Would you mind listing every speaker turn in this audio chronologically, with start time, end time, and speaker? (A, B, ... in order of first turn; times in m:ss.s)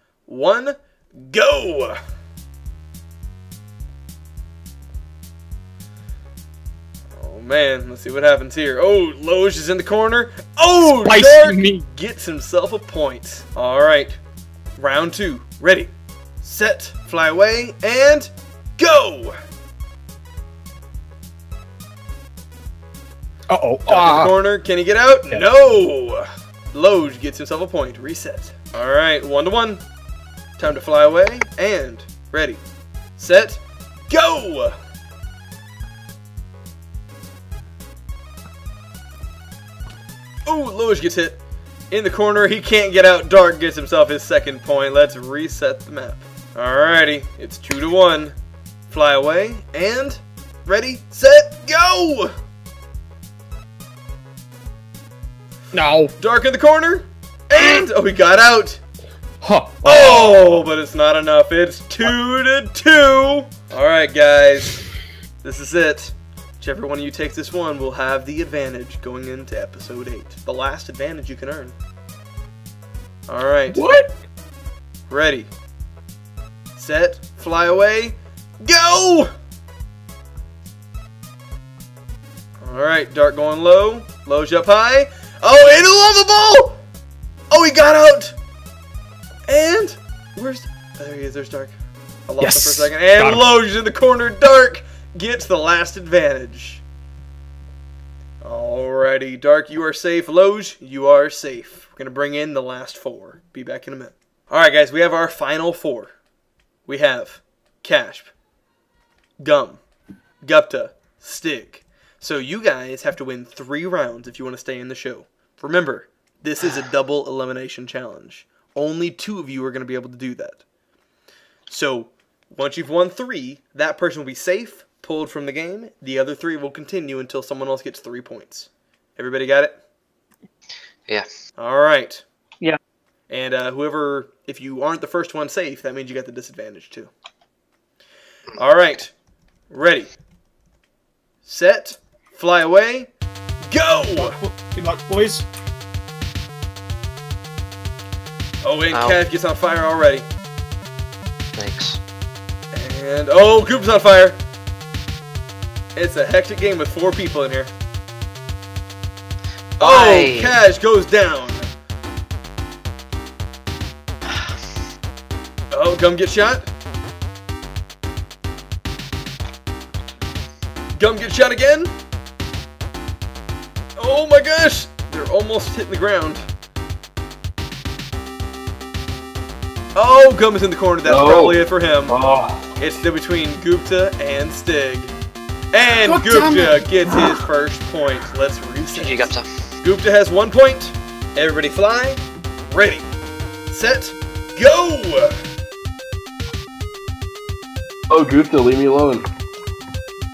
0:00.3-0:02.0 A
0:07.2-0:14.2 A
0:10.9-0:11.8 B
0:14.8-0:15.9 A
0:16.4-0:19.4 A
0:23.5-0:24.4 B
0:23.9-0:29.8 A
0:30.6-0:32.6 A
0:33.2-0:34.8 A
0:40.5-0:41.4 A
0:41.9-0:48.4 A
0:48.9-0:52.3 A
0:55.7-0:56.1 B
0:56.2-0:58.8 A
0:59.4-1:00.6 B
0:59.8-1:04.8 A
1:05.4-1:11.8 A
1:13.3-1:13.8 A
1:13.7-1:14.1 B
1:15.1-1:15.5 A
1:16.8-1:19.3 A
1:22.6-1:26.8 A
1:27.5-1:28.4 A
1:29.5-1:31.8 A
1:32.3-1:36.8 A
1:32.4-1:33.5 B
1:38.4-1:46.1 A
1:46.9-1:48.3 A
1:49.4-1:49.8 A
1:50.4-2:00.6 A
2:01.7-2:09.8 A
2:11.6-2:12.2 A
2:13.3-2:17.1 A
2:18.6-2:19.1 A
2:19.7-2:20.1 A
2:21.5-2:23.1 A
2:23.6-2:24.4 A
2:24.1-2:25.5 C
2:28.6-2:30.3 A
2:28.9-2:29.2 D
2:31.6-2:32.0 D
2:32.7-2:34.4 A
2:36.0-2:37.7 A
2:39.8-2:40.6 D
2:39.8-2:41.7 A
2:44.3-2:44.5 D
2:45.7-2:46.7 A
2:51.0-2:51.9 A
2:54.0-2:56.5 A
3:00.0-3:02.2 A
3:01.1-3:02.7 E
3:02.8-3:05.1 A
3:05.7-3:13.1 A
3:06.0-3:07.4 C
3:08.9-3:09.5 D
3:13.7-3:15.4 A
3:18.1-3:19.2 E